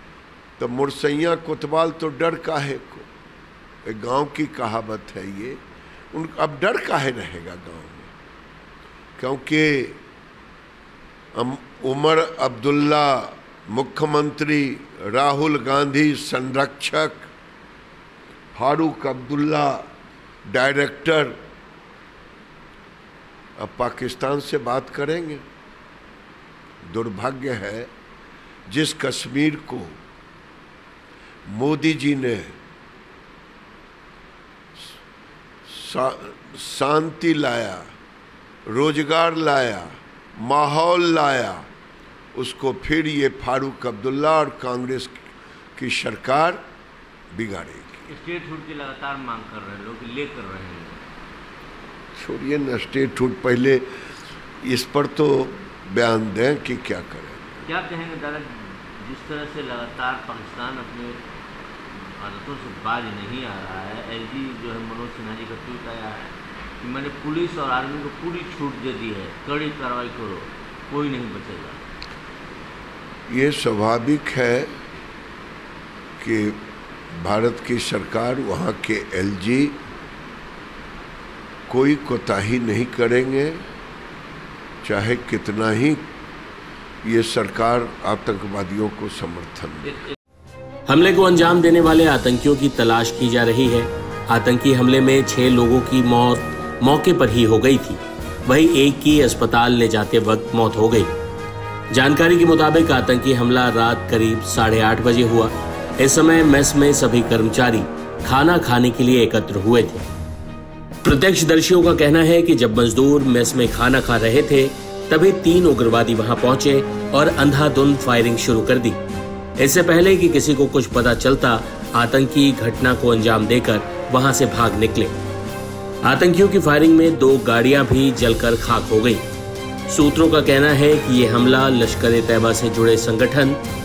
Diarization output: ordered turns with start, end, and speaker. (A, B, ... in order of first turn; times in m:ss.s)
0:00.6-0:03.1 A
0:03.8-0:05.6 A
0:06.1-0:08.1 A
0:09.2-0:10.0 A
0:11.4-0:17.3 A
0:18.5-0:19.9 A
0:20.5-0:21.4 A
0:23.6-0:25.4 A
0:26.8-0:27.9 A
0:28.7-0:30.0 A
0:31.5-0:32.6 A
0:35.7-0:37.9 A
0:38.7-0:41.6 A
0:42.3-0:45.2 A
0:45.8-0:46.6 A
0:47.3-0:48.1 A
0:48.1-0:51.0 B
0:52.2-0:53.9 A
0:54.6-0:57.6 A
0:57.7-0:58.5 B
0:59.0-1:01.2 B
1:01.9-1:11.8 B
1:13.3-1:14.7 A
1:16.2-1:16.6 A
1:17.1-1:19.8 A
1:21.7-1:23.6 A
1:24.8-1:26.0 A
1:27.0-1:30.0 A
1:30.9-1:41.1 C
1:41.9-1:50.1 C
1:51.0-1:59.0 C
1:59.6-2:05.1 C
2:06.0-2:09.2 C
2:09.9-2:13.6 C